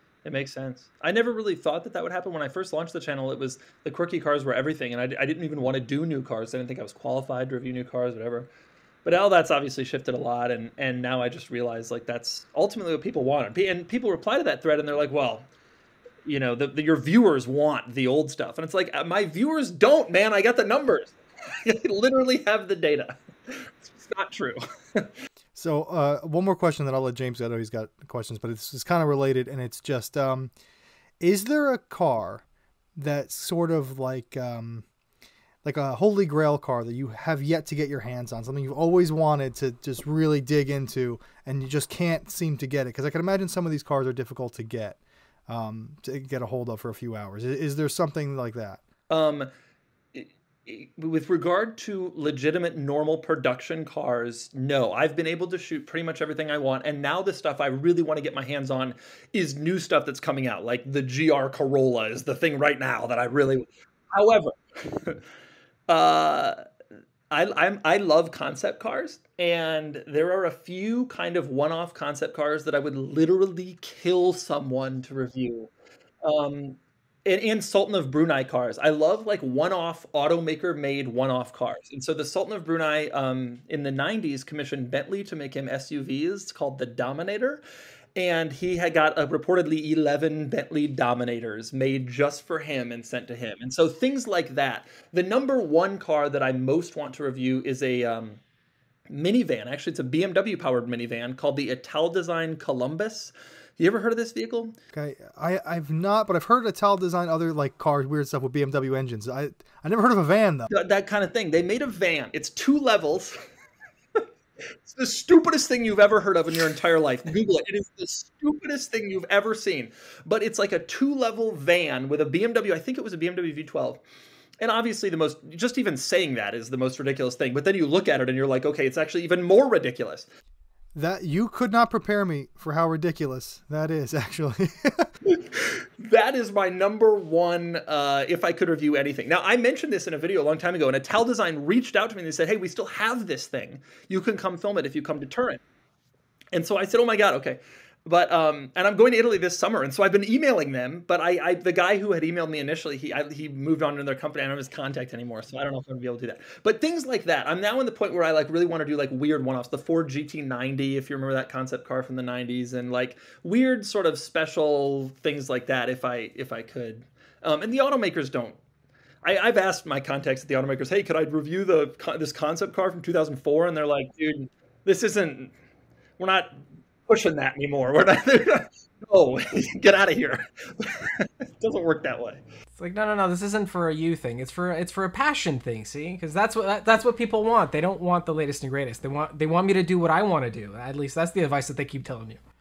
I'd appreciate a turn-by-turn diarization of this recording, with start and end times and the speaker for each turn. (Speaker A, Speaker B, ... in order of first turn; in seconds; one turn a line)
Speaker A: 0.2-8.5
Speaker A: 9.1-15.5
Speaker A: 16.2-25.1
Speaker B: 25.6-30.5
Speaker B: 31.2-32.4
Speaker B: 33.0-34.9
Speaker B: 35.6-48.8
Speaker A: 49.1-49.5
Speaker A: 50.1-65.2
Speaker A: 65.9-66.6
Speaker A: 67.3-75.7
Speaker A: 76.2-87.6
Speaker A: 88.2-98.4
Speaker A: 99.1-104.8
Speaker B: 104.9-110.7
Speaker A: 110.7-113.3
Speaker A: 114.9-124.0
Speaker A: 124.6-130.3
Speaker B: 130.9-135.1
Speaker A: 135.2-145.6
Speaker A: 146.5-168.6
Speaker A: 169.2-175.5
Speaker A: 176.2-176.6
Speaker A: 177.1-182.4
Speaker C: 182.8-192.4